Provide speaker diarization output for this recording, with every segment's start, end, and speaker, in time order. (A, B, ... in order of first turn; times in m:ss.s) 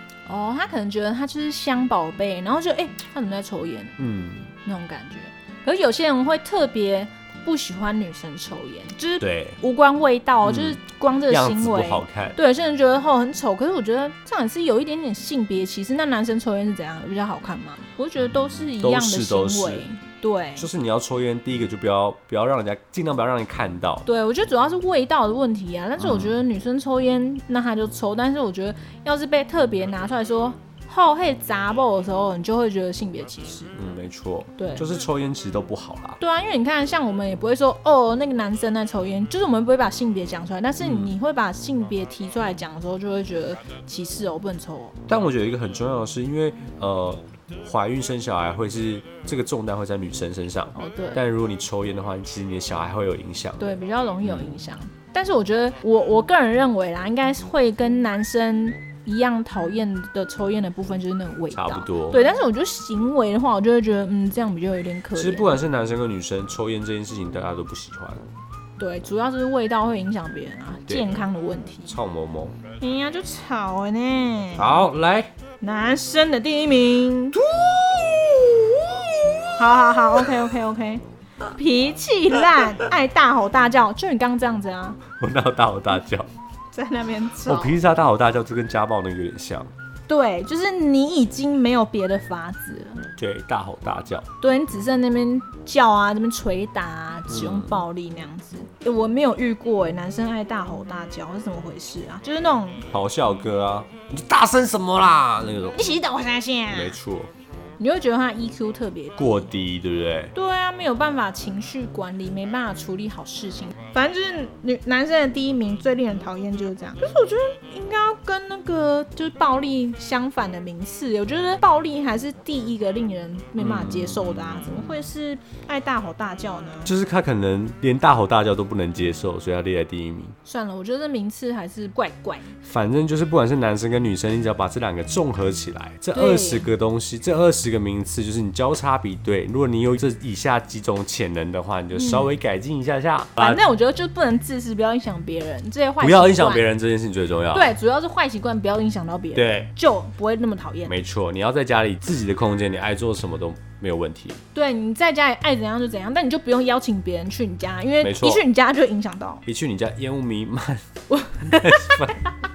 0:00.3-0:04.0 A
0:04.0-0:04.5 B
0:04.6-0:20.7 A
0:09.2-0:09.6 B
0:10.4-0:12.4 B
0:18.4-0:19.9 B
0:20.6-0:24.1 B
0:24.1-0:33.7 A
0:26.0-0:26.4 B
0:33.8-0:36.2 B
0:34.6-0:34.9 A
0:36.2-0:45.0 A
0:40.8-0:41.2 B
0:45.1-0:54.6 B
0:50.8-0:51.2 A
0:53.6-1:05.6 A
1:01.5-1:02.2 B
1:05.1-1:08.2 B
1:08.8-1:11.9 A
1:10.9-1:11.3 B
1:11.9-1:12.6 B
1:12.8-1:14.8 A
1:14.6-1:15.3 B
1:15.6-1:17.4 A
1:17.4-1:19.6 B
1:19.6-1:25.0 A
1:20.2-1:20.5 B
1:25.2-1:26.3 B
1:26.7-1:27.8 A
1:27.5-1:29.7 B
1:30.1-1:33.1 A
1:33.2-1:34.3 B
1:34.4-1:42.9 A
1:37.3-1:37.8 B
1:42.9-1:45.9 B
1:45.7-1:47.0 A
1:46.7-1:47.3 B
1:47.8-1:49.5 A
1:49.2-1:50.3 B
1:50.4-2:06.9 A
2:03.6-2:04.9 B
2:06.8-2:10.4 B
2:10.5-2:12.5 A
2:12.6-2:23.6 B
2:16.1-2:16.7 A
2:21.9-2:22.3 A
2:23.4-2:26.7 A
2:26.0-2:27.7 B
2:27.5-2:30.9 A
2:29.4-2:29.7 B
2:30.9-2:34.4 B
2:34.5-2:39.4 A
2:38.0-2:38.4 B
2:39.4-2:40.9 B
2:41.1-2:42.1 A
2:41.4-2:42.2 B